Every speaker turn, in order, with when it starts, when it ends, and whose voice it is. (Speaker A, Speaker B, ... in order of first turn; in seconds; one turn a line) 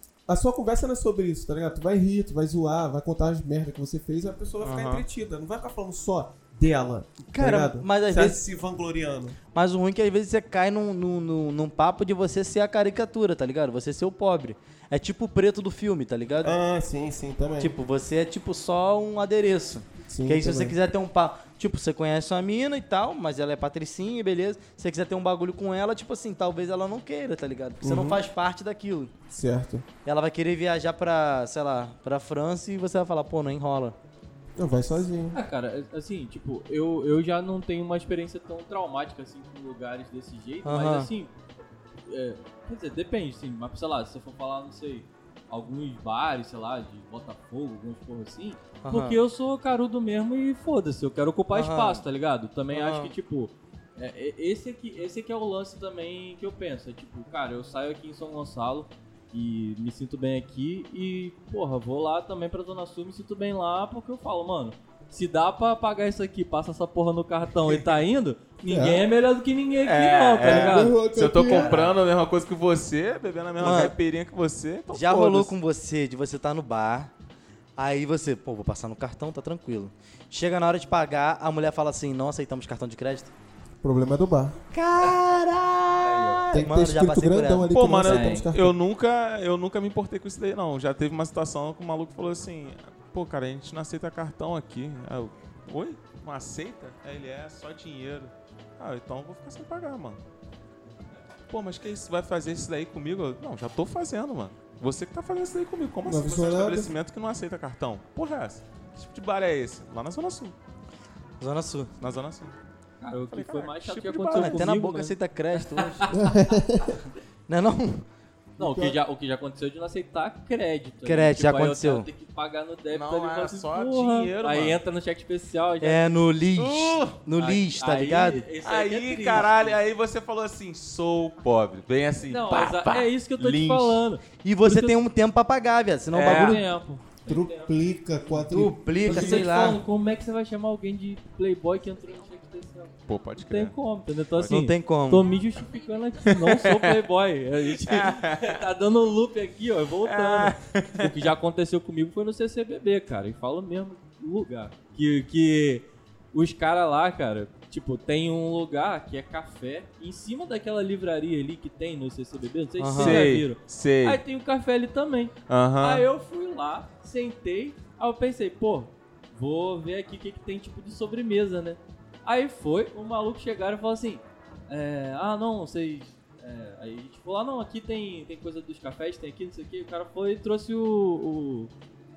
Speaker A: 0.3-9.4
Speaker B: 4.6-5.0
Speaker C: 7.3-8.4
Speaker C: 9.5-16.6
Speaker A: 16.4-17.7
Speaker C: 17.6-29.1
Speaker A: 20.1-20.8
Speaker A: 27.8-28.2
Speaker A: 29.3-29.9
Speaker C: 30.0-34.0
Speaker A: 34.6-35.4
Speaker D: 35.3-41.3
Speaker C: 40.6-41.1
Speaker D: 42.0-70.9
Speaker C: 48.8-49.2
Speaker C: 51.5-52.0
Speaker C: 52.7-53.1
Speaker A: 68.6-69.0
Speaker B: 69.8-75.5
Speaker A: 70.4-71.9
Speaker C: 71.4-72.0
Speaker C: 73.6-74.0
Speaker C: 74.9-77.1
Speaker C: 77.8-83.3
Speaker A: 83.8-84.6
Speaker C: 84.7-88.4
Speaker D: 86.1-86.4
Speaker A: 86.5-88.7
Speaker B: 87.7-100.2
Speaker B: 101.5-110.5
Speaker A: 106.0-106.9
Speaker C: 111.4-111.9
Speaker B: 112.0-112.5
Speaker D: 113.0-116.3
Speaker B: 113.3-114.7
Speaker C: 114.3-116.2
Speaker A: 116.1-117.0
Speaker C: 117.5-118.1
Speaker D: 118.6-126.1
Speaker A: 118.6-119.0
Speaker C: 121.0-122.1
Speaker B: 122.9-124.8
Speaker C: 125.8-128.4
Speaker B: 126.6-127.2
Speaker D: 127.4-129.8
Speaker B: 128.6-134.0
Speaker D: 132.2-135.0
Speaker C: 134.4-136.7
Speaker B: 136.1-136.6
Speaker D: 136.2-137.7
Speaker A: 137.2-139.5
Speaker C: 138.4-139.8
Speaker D: 139.0-181.7
Speaker B: 143.1-143.7
Speaker C: 144.4-145.3
Speaker B: 146.2-146.9
Speaker B: 147.8-148.6
Speaker B: 150.0-151.2
Speaker C: 162.8-163.3
Speaker B: 162.9-164.2
Speaker B: 165.5-166.1